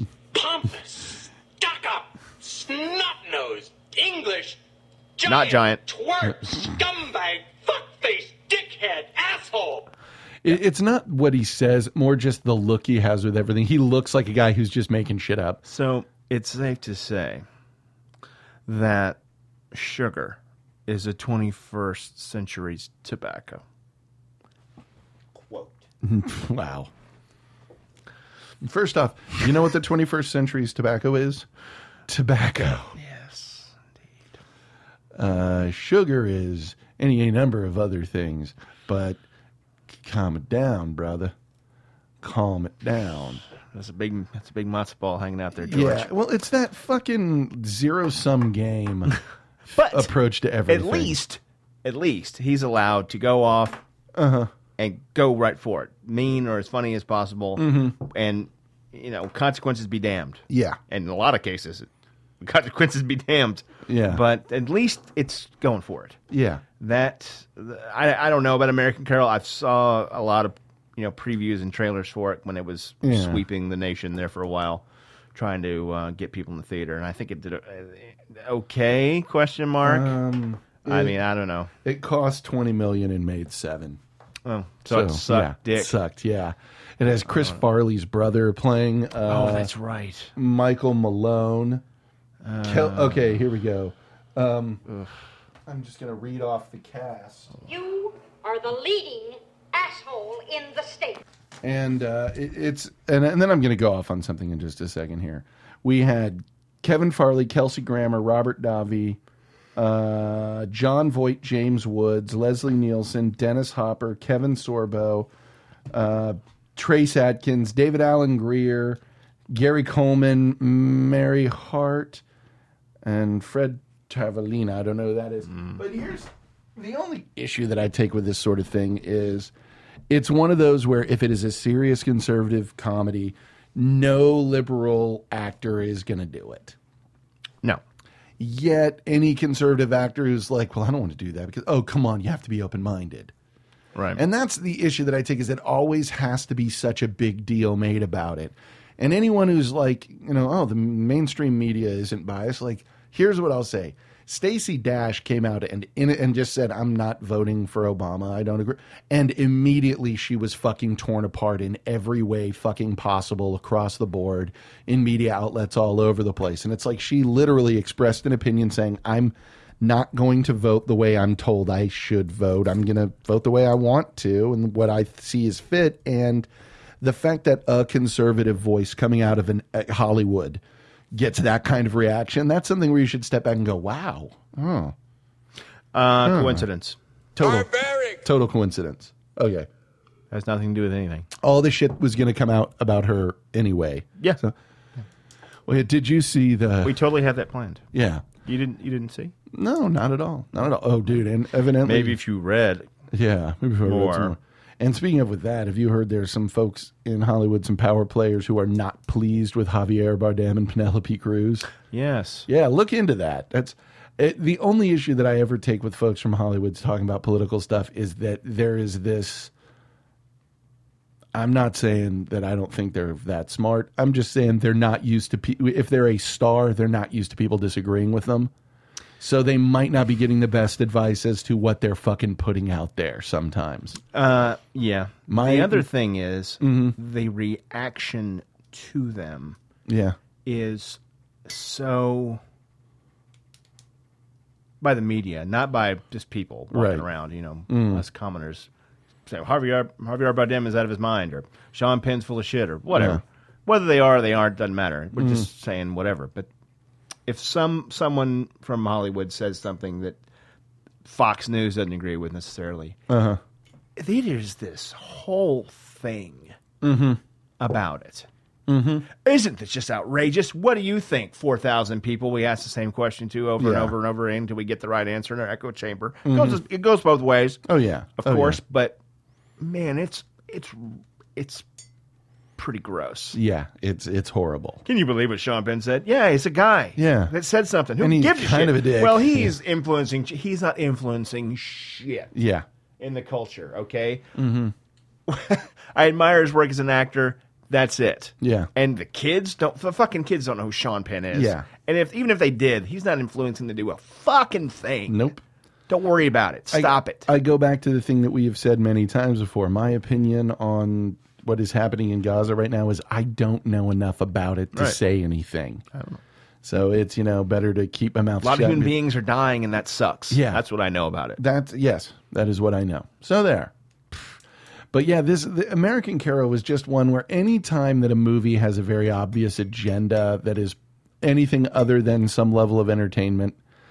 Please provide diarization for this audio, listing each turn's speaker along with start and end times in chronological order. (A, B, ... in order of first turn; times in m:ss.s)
0:00.3-0:04.6 A
0:05.2-0:09.9 A
0:05.2-0:05.8 B
0:10.4-0:15.6 C
0:15.6-0:17.4 B
0:18.7-0:19.2 B
0:19.7-0:23.6 B
0:25.5-0:25.8 B
0:26.0-0:26.9 C
0:28.6-0:31.5 C
0:32.1-0:33.0 C
0:33.0-0:33.8 B
0:35.2-0:39.2 C
0:40.0-0:41.3 C
0:42.2-0:43.4 C
0:43.7-0:46.1 B
0:45.6-0:49.2 C
0:49.7-0:50.1 B
0:49.8-0:51.2 C
0:50.7-0:53.8 B
0:54.2-0:54.5 C
0:54.8-1:01.9 B
0:57.6-0:58.0 C
1:00.5-1:00.8 C
1:02.4-1:06.2 B
1:03.9-1:04.2 C
1:06.3-1:06.6 C
1:06.8-1:20.1 B
1:13.0-1:13.4 C
1:19.8-1:21.2 C
1:20.8-1:21.7 B
1:21.8-1:24.0 C
1:24.4-1:25.9 B
1:24.9-1:29.7 C
1:29.3-1:30.3 B
1:30.4-1:31.8 C
1:32.4-1:33.3 B
1:32.6-1:34.8 C
1:35.7-1:37.5 C
1:37.6-1:41.2 D
1:41.6-1:49.2 C
1:49.8-1:55.3 C
1:55.9-2:02.2 C
2:03.0-2:09.5 C
2:05.5-2:05.8 B
2:10.1-2:16.8 C
2:18.4-2:23.3 C
2:24.0-2:24.2 B
2:24.2-2:56.5 C
2:57.0-3:00.6 C
3:01.1-3:05.0 C
3:05.9-3:07.0 B
3:06.2-3:06.6 C
3:07.4-3:09.7 C
3:10.3-3:11.3 B
3:11.4-3:14.6 C
3:15.7-3:17.0 C
3:16.8-3:17.8 B
3:17.9-3:18.3 C
3:18.4-3:19.3 B
3:19.5-3:22.2 C
3:21.8-3:22.9 B
3:23.1-3:31.7 C
3:23.8-3:24.4 B
3:31.9-3:32.5 B
3:32.5-3:39.5 C
3:41.3-3:48.5 C
3:49.2-3:54.0 C
3:54.1-3:59.6 B
3:55.3-3:55.9 C
3:56.6-3:57.0 C
3:59.9-4:00.2 C
4:00.4-4:02.4 B
4:04.8-4:08.7 B
4:06.7-4:07.1 C
4:07.7-4:08.0 C
4:09.3-4:16.5 B
4:12.9-4:13.2 C
4:15.2-4:15.5 C
4:17.3-4:20.2 B
4:21.0-4:23.0 B
4:23.1-4:23.4 C
4:24.0-4:26.6 B
4:26.8-4:27.2 C
4:27.6-4:28.3 B
4:28.7-4:29.1 C
4:29.1-4:37.6 B
4:33.6-4:34.0 C
4:36.2-4:36.6 C
4:37.7-4:38.6 C
4:38.2-4:39.0 B
4:39.6-4:41.6 B
4:42.6-4:43.4 B
4:43.3-4:44.8 C
4:44.8-4:52.3 B
4:47.0-4:47.3 C
4:48.0-4:49.6 C
4:52.3-4:52.7 C
4:53.0-4:54.3 B
4:54.4-4:54.7 C
4:55.3-5:05.3 B
4:58.4-4:58.7 C
5:01.3-5:01.7 C
5:05.1-5:05.4 C
5:05.9-5:07.3 B
5:06.7-5:15.8 C
5:15.9-5:16.2 B
5:16.6-5:18.9 C
5:18.4-5:21.4 B
5:20.3-5:20.6 C
5:21.4-5:24.3 C
5:24.9-5:33.6 C